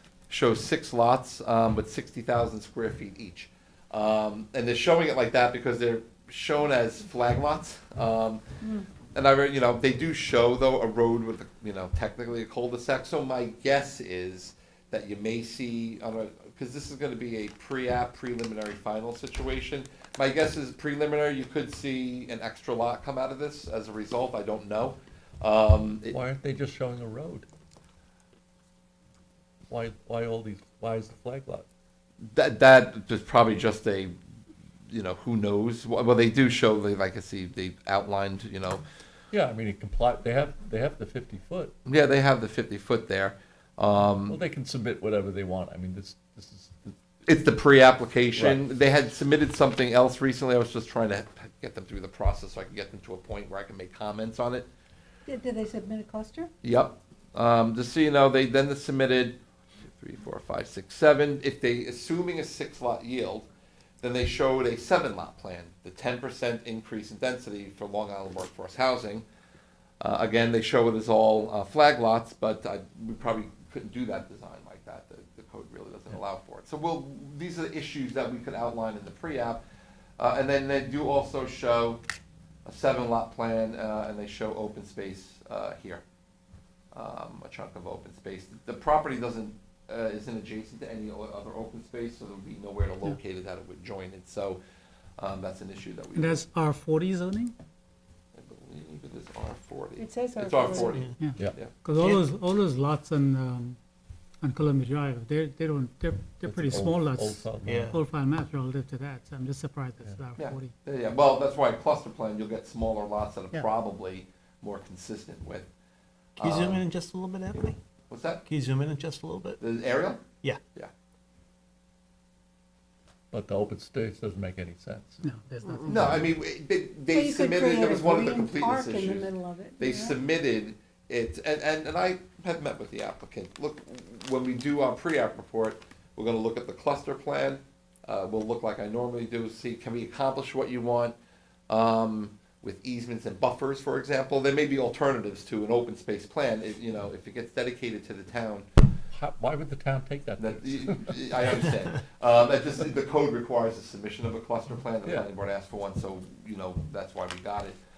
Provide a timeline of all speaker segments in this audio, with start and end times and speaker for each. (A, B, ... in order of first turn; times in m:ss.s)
0:00.3-0:08.4 A
0:09.1-0:26.2 A
0:26.1-0:27.5 B
0:29.7-0:31.6 B
0:32.3-0:34.1 A
0:34.9-0:38.8 A
0:39.3-0:41.7 B
0:41.8-0:44.4 A
0:44.2-0:47.0 B
0:47.2-0:54.7 A
0:48.4-0:48.6 B
0:55.2-0:56.5 C
0:56.6-0:59.4 A
0:59.9-1:03.5 A
1:04.0-1:09.2 A
1:10.0-1:19.6 A
1:20.2-1:22.0 A
1:22.6-1:26.0 A
1:26.9-1:34.6 A
1:35.2-1:36.4 A
1:36.1-1:37.5 D
1:38.3-1:42.2 A
1:40.0-1:41.0 C
1:41.2-1:43.8 D
1:44.4-1:50.7 D
1:46.4-1:48.0 B
1:47.6-1:48.0 E
1:50.4-1:55.7 A
1:56.4-1:56.8 A
1:56.4-1:57.8 E
1:58.1-1:58.4 A
1:58.4-1:59.6 E
1:59.6-2:00.2 A
2:03.3-2:05.2 B
2:05.2-2:06.3 D
2:05.8-2:21.2 A
2:07.1-2:10.2 C
2:21.7-2:28.7 A
2:29.1-2:31.7 B
2:30.4-2:37.8 A